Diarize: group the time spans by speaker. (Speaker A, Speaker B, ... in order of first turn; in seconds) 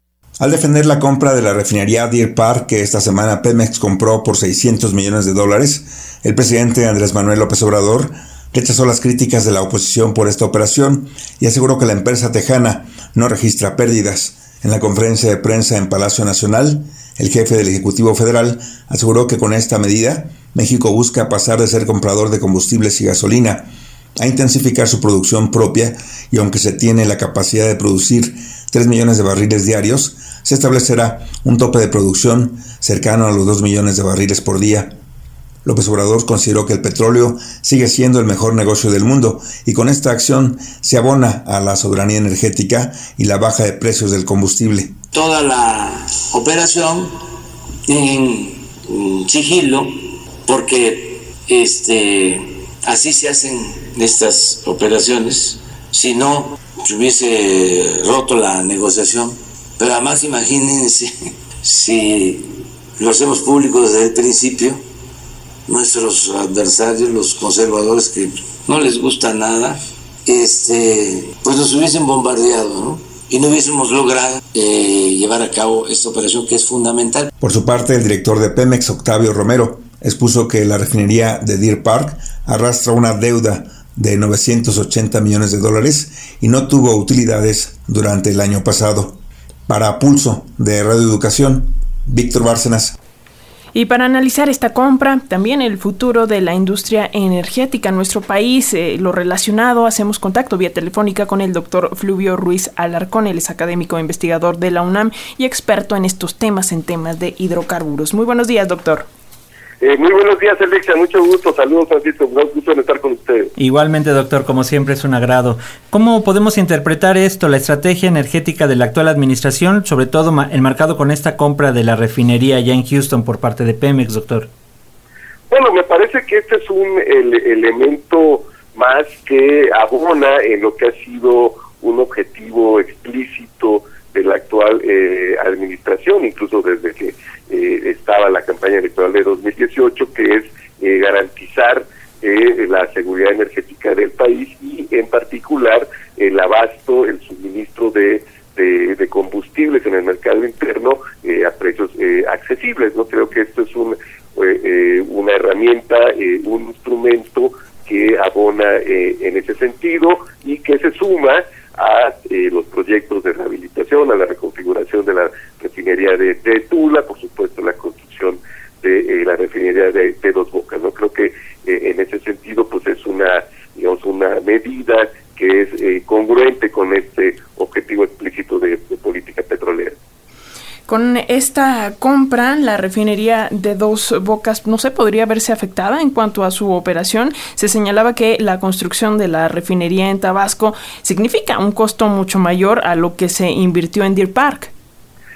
Speaker A: 0.4-23.7, 24.2-34.9, 35.6-44.9, 77.4-92.9
Speaker B: 45.1-47.1, 47.9-64.8, 65.7-77.3
Speaker C: 93.7-109.0, 180.9-194.7
Speaker D: 109.8-113.5, 125.5-179.9
Speaker E: 113.6-124.5